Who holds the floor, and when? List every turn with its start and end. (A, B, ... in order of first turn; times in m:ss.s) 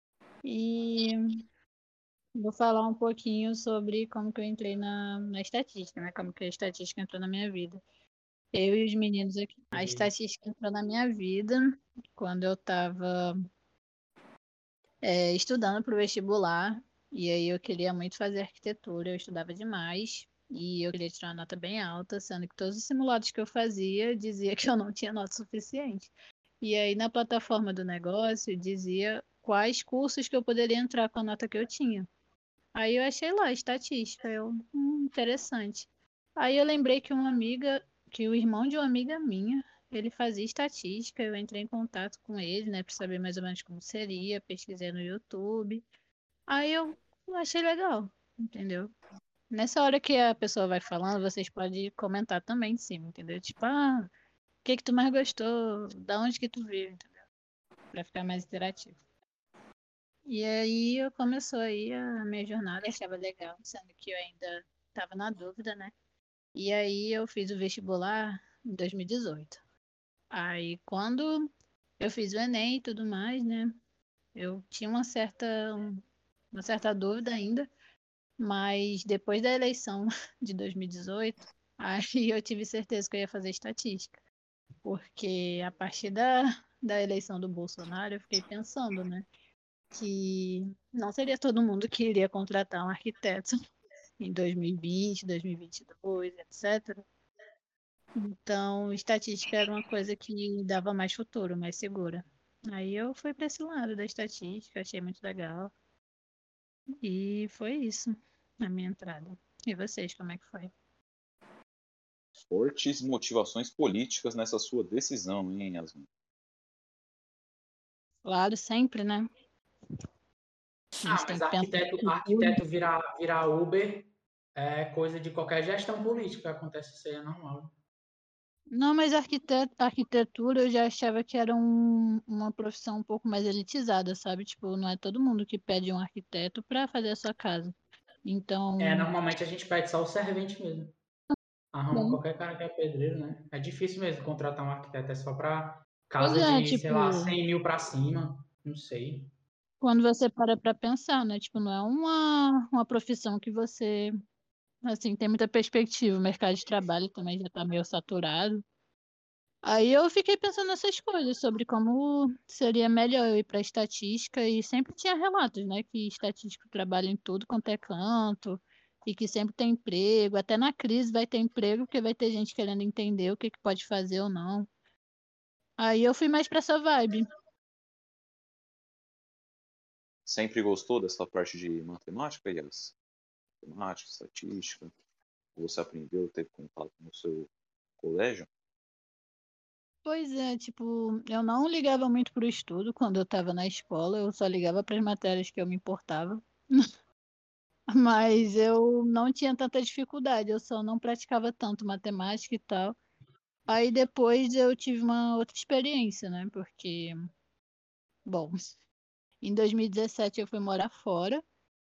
0:00.4-0:01.2 A
0:02.4-0:07.8 A
0:08.5-0:13.4 A
0:09.7-0:10.1 B
0:15.0-0:32.1 A
0:32.8-0:45.9 A
0:46.5-0:48.9 A
0:49.5-0:54.1 A
0:54.6-0:57.3 A
0:57.9-0:59.0 A
1:00.3-1:05.9 A
1:06.6-1:09.6 A
1:10.3-1:11.5 A
1:12.0-1:13.8 A
1:14.4-1:17.7 A
1:18.4-1:24.2 A
1:24.8-1:29.3 A
1:29.9-1:33.6 A
1:34.2-1:37.0 A
1:38.2-1:45.7 A
1:47.0-1:50.7 A
1:52.4-1:56.1 C
1:58.2-1:59.3 A
2:01.0-2:02.6 A
2:01.1-2:07.7 B
2:08.7-2:19.1 A
2:18.8-2:20.9 B
2:21.7-2:29.3 B
2:21.9-2:22.2 A
2:26.2-2:27.4 A
2:29.8-2:34.1 A
2:34.9-2:38.6 A
2:39.6-2:54.7 A
2:55.8-2:57.3 A
3:00.2-3:03.0 C
3:03.6-3:04.9 C
3:05.6-3:08.5 C
3:10.0-3:16.5 A
3:17.9-3:23.0 A
3:23.7-3:27.2 A
3:28.3-3:28.5 A
3:29.4-3:31.4 A